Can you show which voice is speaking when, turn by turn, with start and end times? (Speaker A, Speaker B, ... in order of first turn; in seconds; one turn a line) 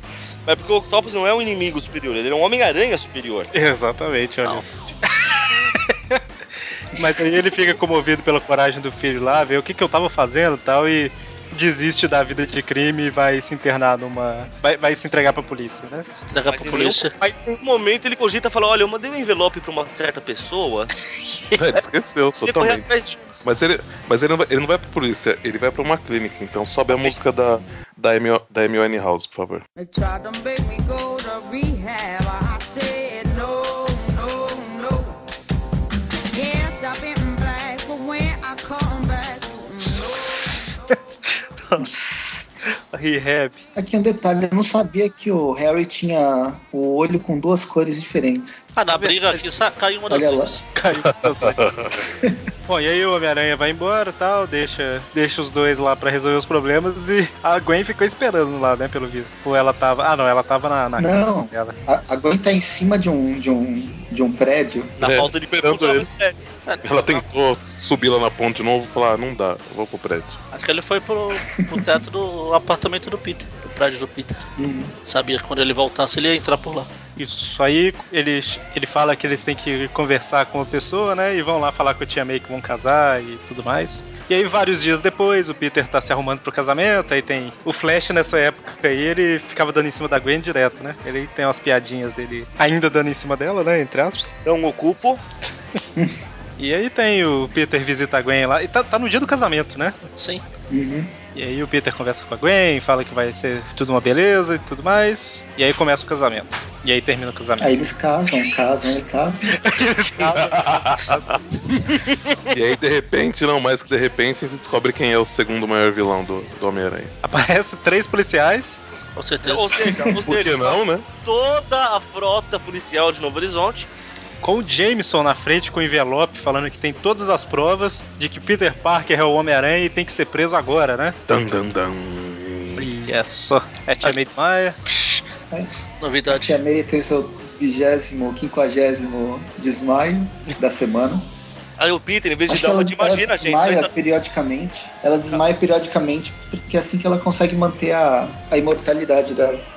Speaker A: 0.5-3.5
Speaker B: 3.5-6.2
Speaker B: 6.9-16.1
Speaker C: 16.1-17.1
Speaker A: 16.5-20.9
Speaker D: 21.6-22.9
Speaker A: 22.4-23.2
Speaker D: 23.4-29.6
Speaker E: 29.8-35.2
Speaker E: 36.3-40.5
Speaker B: 40.5-40.8
Speaker F: 41.8-42.5
Speaker B: 42.9-43.6
Speaker F: 43.8-48.6
Speaker C: 48.8-50.6
Speaker B: 48.9-49.4
Speaker F: 50.1-50.5
Speaker B: 50.7-51.8
Speaker D: 51.0-52.0
Speaker B: 52.7-61.8
Speaker F: 61.0-65.0
Speaker A: 65.0-66.3
Speaker D: 65.0-66.1
Speaker C: 66.7-67.2
Speaker D: 66.8-70.4
Speaker C: 70.5-74.4
Speaker F: 74.6-74.9
Speaker C: 75.0-76.9
Speaker B: 77.2-94.3
Speaker A: 94.4-95.2
Speaker B: 96.6-100.0
Speaker C: 100.2-100.4
Speaker F: 100.7-101.1
Speaker B: 101.3-107.8
Speaker F: 107.6-109.6
Speaker B: 109.5-111.2
Speaker D: 110.3-111.8
Speaker D: 112.5-117.1
Speaker B: 117.2-118.8
Speaker C: 119.2-119.8
Speaker A: 119.4-123.9
Speaker D: 120.2-121.1
Speaker B: 124.4-131.2
Speaker D: 131.3-132.9
Speaker B: 132.8-134.8
Speaker F: 135.5-141.3
Speaker C: 136.0-136.6
Speaker A: 141.8-143.9
Speaker F: 142.5-149.6